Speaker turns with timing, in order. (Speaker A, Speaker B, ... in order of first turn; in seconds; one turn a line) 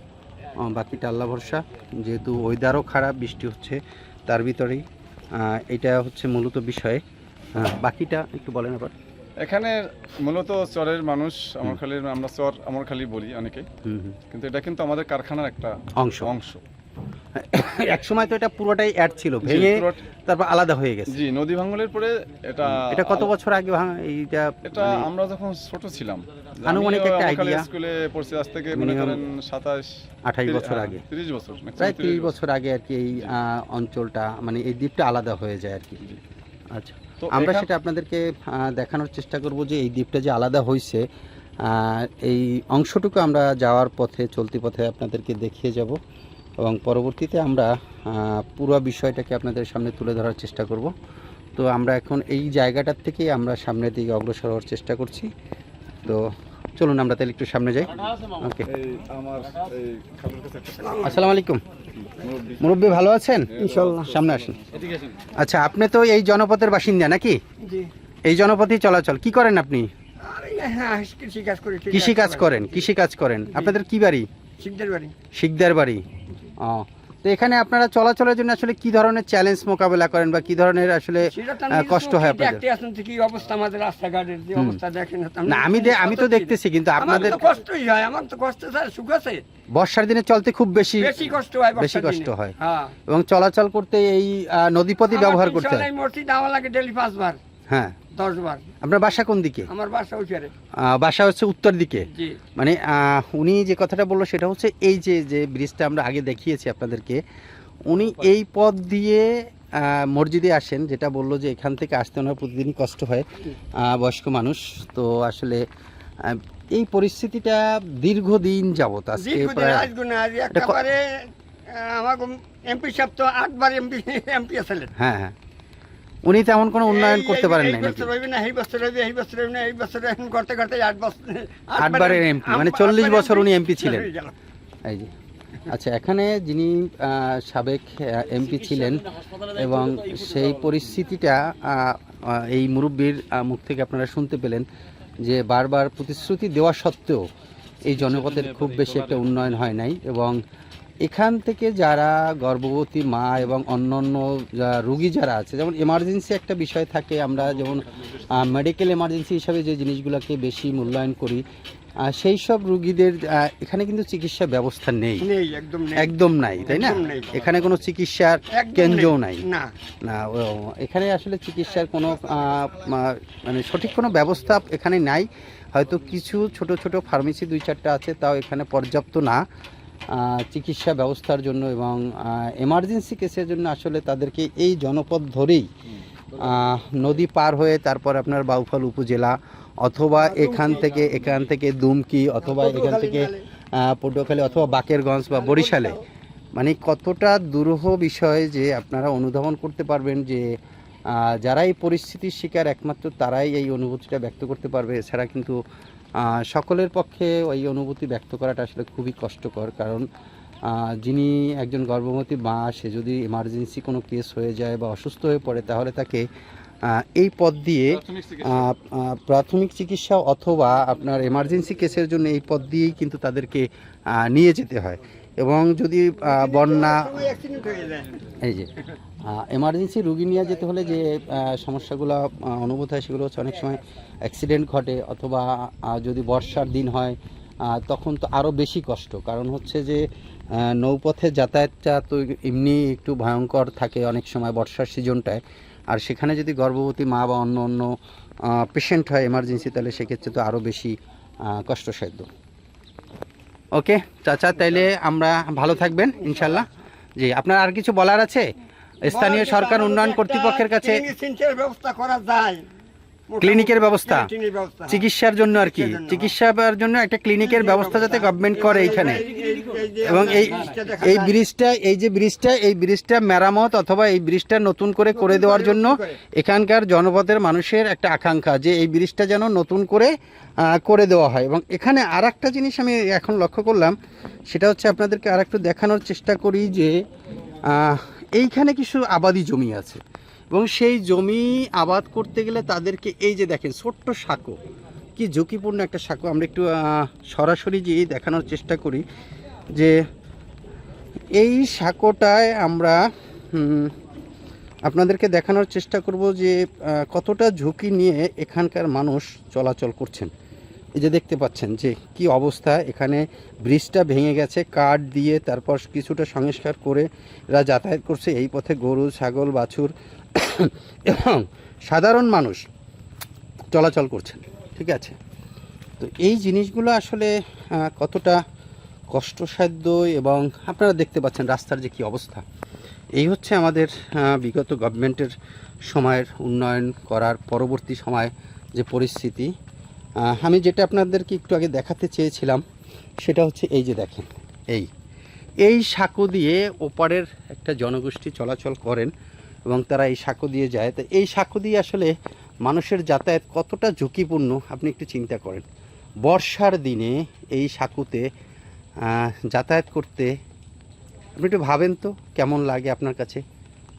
Speaker A: 0.6-4.8
Speaker A: 5.4-7.0
Speaker A: 7.6-8.9
Speaker B: 9.4-13.7
Speaker A: 13.8-14.2
Speaker B: 14.3-16.6
Speaker A: 16.0-16.3
Speaker A: 17.4-21.2
Speaker B: 19.4-20.0
Speaker B: 21.1-23.3
Speaker A: 22.6-25.1
Speaker B: 24.7-32.4
Speaker A: 26.6-27.7
Speaker A: 28.7-29.2
Speaker A: 30.3-31.0
Speaker A: 31.8-36.0
Speaker A: 36.7-41.1
Speaker B: 37.2-37.7
Speaker A: 41.6-46.0
Speaker A: 46.6-50.9
Speaker A: 51.6-55.3
Speaker A: 56.0-58.7
Speaker B: 58.7-61.0
Speaker C: 60.8-61.2
Speaker A: 61.0-61.6
Speaker B: 62.0-65.2
Speaker A: 62.6-64.5
Speaker C: 63.6-64.1
Speaker A: 65.3-67.4
Speaker C: 67.6-67.9
Speaker A: 68.3-69.9
Speaker C: 70.2-72.8
Speaker A: 71.9-74.3
Speaker C: 74.6-75.1
Speaker A: 75.3-76.0
Speaker A: 76.6-82.6
Speaker C: 81.3-89.4
Speaker A: 85.5-87.5
Speaker A: 89.8-91.2
Speaker C: 91.0-92.9
Speaker A: 91.8-92.5
Speaker A: 93.1-95.9
Speaker C: 95.1-97.4
Speaker A: 97.7-98.0
Speaker C: 98.2-98.6
Speaker A: 98.8-99.7
Speaker C: 99.7-100.5
Speaker A: 100.8-107.2
Speaker C: 102.1-102.4
Speaker A: 107.9-115.7
Speaker A: 116.2-119.9
Speaker C: 119.2-124.9
Speaker A: 120.5-120.8
Speaker A: 125.0-125.3
Speaker A: 126.2-128.1
Speaker C: 126.8-134.3
Speaker A: 131.8-134.1
Speaker A: 134.8-135.1
Speaker A: 135.7-144.7
Speaker A: 145.2-147.2
Speaker A: 147.8-150.4
Speaker A: 151.0-161.4
Speaker A: 162.0-165.3
Speaker C: 165.2-166.1
Speaker A: 166.0-169.4
Speaker C: 166.7-167.3
Speaker C: 168.5-169.7
Speaker A: 170.0-179.4
Speaker A: 180.1-185.7
Speaker A: 186.3-196.0
Speaker C: 190.3-191.1
Speaker C: 192.4-193.5
Speaker C: 195.4-196.0
Speaker A: 196.6-200.4
Speaker A: 201.1-205.6
Speaker A: 206.2-210.1
Speaker A: 210.7-216.3
Speaker A: 216.8-227.2
Speaker B: 217.9-218.7
Speaker C: 226.2-228.2
Speaker A: 228.4-252.3
Speaker A: 253.7-256.7
Speaker A: 257.2-258.5
Speaker A: 259.0-261.1
Speaker C: 259.1-262.7
Speaker C: 263.3-266.3
Speaker A: 263.4-264.3
Speaker A: 264.9-269.3
Speaker C: 267.4-271.4
Speaker A: 270.0-284.0
Speaker C: 275.1-276.2
Speaker A: 284.5-286.9
Speaker A: 287.6-294.6
Speaker A: 295.2-299.0
Speaker A: 301.4-303.9
Speaker A: 304.9-310.3
Speaker A: 311.0-322.6
Speaker A: 323.7-325.2
Speaker A: 326.0-328.4
Speaker A: 329.1-332.4
Speaker A: 333.2-335.3
Speaker A: 335.9-339.5
Speaker A: 340.2-342.6
Speaker A: 343.2-344.9
Speaker A: 345.6-349.1
Speaker A: 349.7-352.1
Speaker A: 352.6-355.6
Speaker A: 356.2-358.2
Speaker A: 359.0-360.3
Speaker A: 361.4-363.4